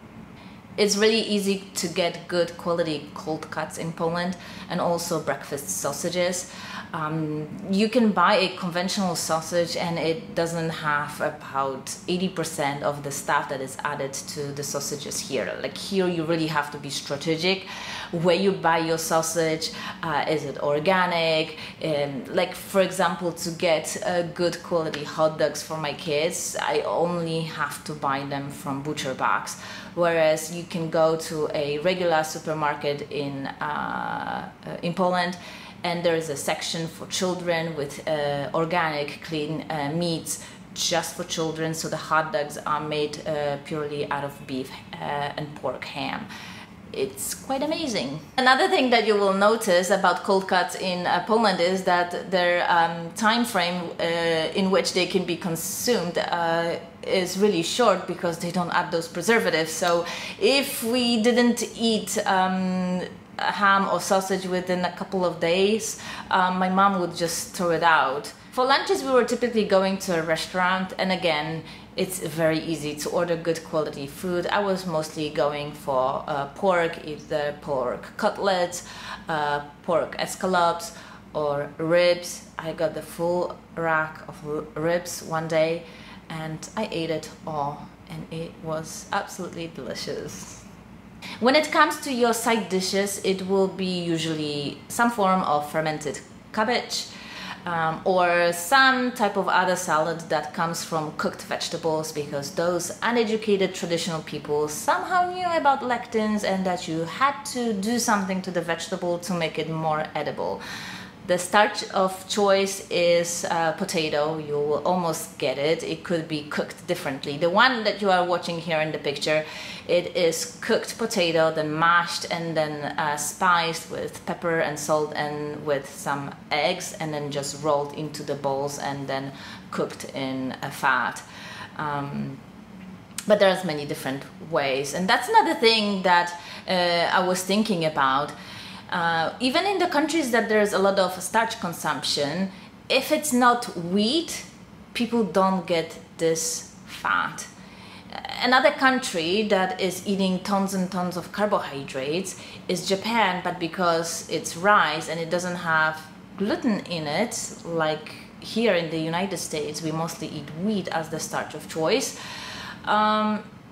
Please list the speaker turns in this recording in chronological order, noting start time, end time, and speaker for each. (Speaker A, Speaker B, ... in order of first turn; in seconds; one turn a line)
Speaker A: 0.8-46.3
Speaker A: 46.9-90.7
Speaker A: 91.4-97.1
Speaker A: 97.7-110.6
Speaker A: 111.2-131.2
Speaker A: 131.8-132.4
Speaker A: 133.3-138.3
Speaker A: 138.9-147.5
Speaker A: 148.1-162.2
Speaker A: 162.8-163.4